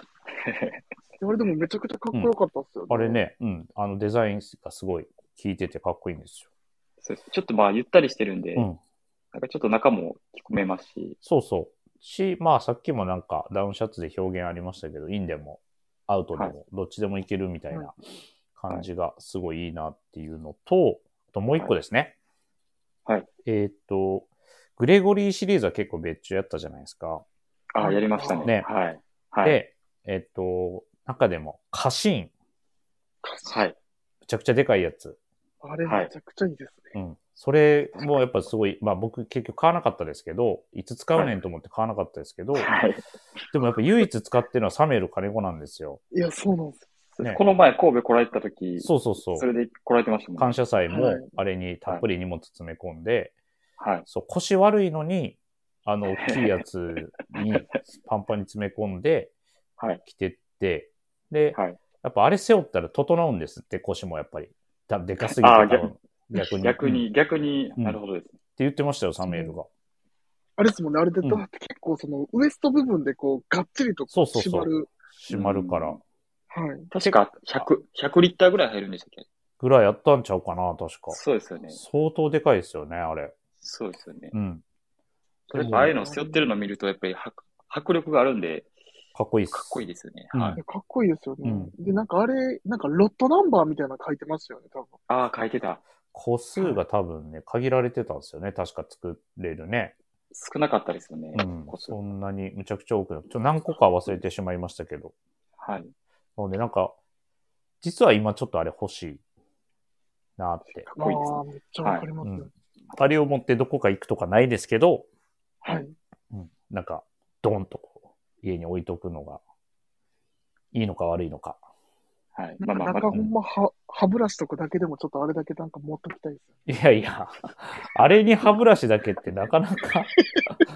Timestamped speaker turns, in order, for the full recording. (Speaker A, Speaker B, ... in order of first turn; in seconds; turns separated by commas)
Speaker A: 0.3-0.8, Speaker B: 1.2-3.2, Speaker C: 2.9-6.5, Speaker A: 7.0-8.7, Speaker A: 9.3-11.2, Speaker C: 11.2-18.0, Speaker C: 18.6-22.1, Speaker C: 23.4-27.2, Speaker A: 27.7-29.6, Speaker B: 27.8-28.5, Speaker C: 29.4-32.3, Speaker B: 33.2-33.6, Speaker A: 33.5-33.8, Speaker C: 34.3-35.2, Speaker B: 35.6-37.0, Speaker A: 35.9-36.1, Speaker C: 37.0-42.7, Speaker A: 42.5-43.0, Speaker C: 43.5-46.0, Speaker B: 46.1-46.9, Speaker A: 47.2-50.6, Speaker C: 48.8-49.5, Speaker C: 50.4-53.3, Speaker B: 50.9-51.3, Speaker A: 53.8-54.1, Speaker C: 54.1-59.3, Speaker A: 56.2-56.5, Speaker C: 60.0-67.0, Speaker A: 61.5-61.8, Speaker A: 65.4-68.4, Speaker C: 68.6-69.7, Speaker B: 69.2-69.5, Speaker B: 70.6-74.9, Speaker C: 74.1-76.0, Speaker A: 75.3-76.0, Speaker B: 76.5-76.9, Speaker A: 76.9-79.3, Speaker C: 79.6-81.2, Speaker A: 81.1-81.8, Speaker C: 81.7-83.4, Speaker A: 83.6-84.3, Speaker C: 84.3-84.6, Speaker A: 85.5-88.7, Speaker C: 85.5-85.9, Speaker B: 85.6-86.5, Speaker C: 89.2-90.6, Speaker A: 89.5-90.6, Speaker B: 90.6-95.0, Speaker C: 91.4-91.7, Speaker A: 95.1-95.8, Speaker C: 96.1-100.0, Speaker A: 100.3-102.0, Speaker C: 101.3-105.1, Speaker A: 105.6-105.9, Speaker C: 106.4-107.0, Speaker C: 107.8-109.2, Speaker C: 110.4-110.9, Speaker A: 110.9-112.1, Speaker B: 111.0-112.5, Speaker C: 112.2-115.1, Speaker B: 115.7-116.0, Speaker C: 116.3-119.4, Speaker C: 120.7-121.6, Speaker A: 122.3-123.2, Speaker B: 122.6-126.5, Speaker C: 126.7-130.2